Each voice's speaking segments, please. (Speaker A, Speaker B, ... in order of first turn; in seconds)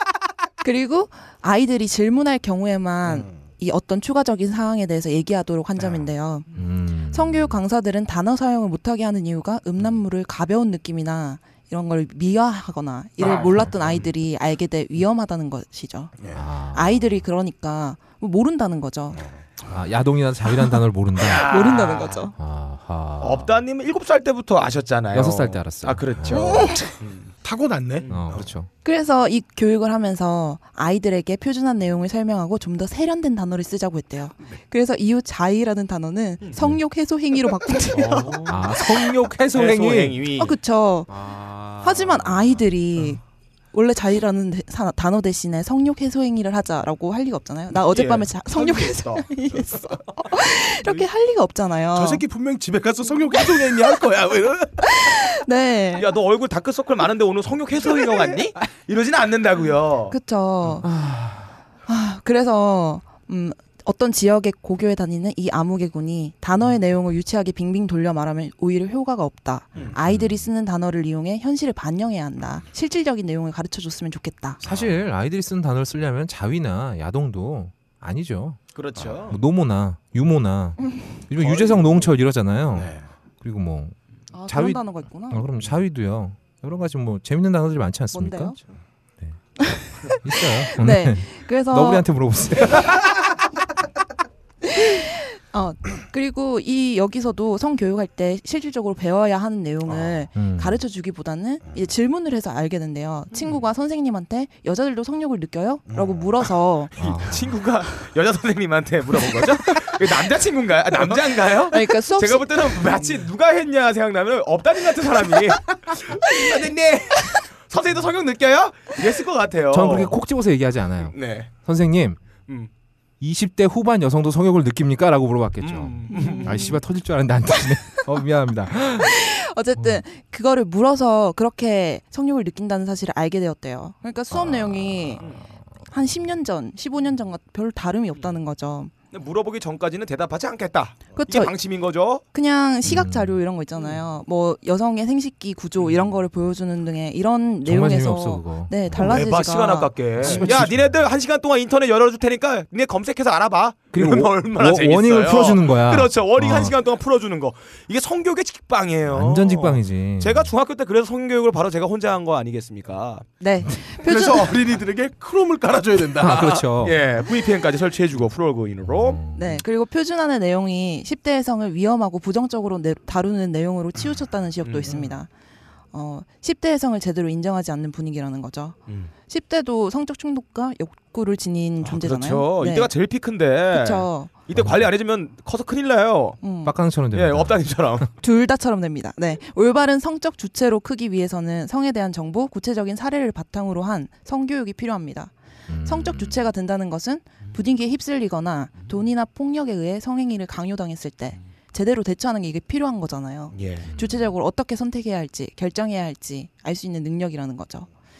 Speaker A: 0.6-6.6, 7.1-19.3, 21.3-22.3, 26.4-26.8, 28.8-39.0, 40.4-41.2, 41.8-52.2, 54.8-56.1, 60.1-60.9, 61.9-74.6, 84.3-85.5, 88.1-88.6, 89.6-92.0, 94.6-107.0, 111.7-113.0, 126.1-126.8, 128.9-135.3, 135.9-138.9, 141.2-141.5, 142.3-149.9, 163.4-164.6, 169.3-175.3, 175.9-182.9, 183.7-184.3, 186.4-186.7, 188.2-195.3, 195.9-207.9
Speaker B: 6.5-7.6, 16.3-17.2, 19.7-21.6, 22.4-23.5, 25.1-26.6, 28.1-28.7, 38.5-40.2, 41.1-42.6, 60.8-61.5, 70.0-70.5, 74.6-78.6, 79.3-84.0, 84.5-88.6, 89.2-93.0, 100.3-100.8, 107.0-107.5, 119.7-122.2, 123.2-129.1, 134.3-135.3, 142.8-143.4, 147.6-149.2, 150.2-150.9, 153.9-156.7, 159.1-160.5, 166.2-167.0, 168.9-169.6, 186.6-187.6, 195.7-196.5, 203.9-204.3
Speaker C: 13.2-14.0, 21.2-22.3, 23.2-27.3, 28.0-28.4, 37.9-38.7, 39.5-40.5, 47.7-49.3, 56.0-60.1, 78.7-79.4, 107.0-120.1, 121.1-121.5, 125.6-126.7, 139.1-142.2, 148.9-163.3, 166.3-169.2, 174.6-175.1, 181.8-186.4, 187.1-188.1, 203.5-203.9
Speaker D: 27.4-28.4, 51.9-55.1, 81.4-82.1, 82.7-83.0, 105.9-106.2, 164.0-166.6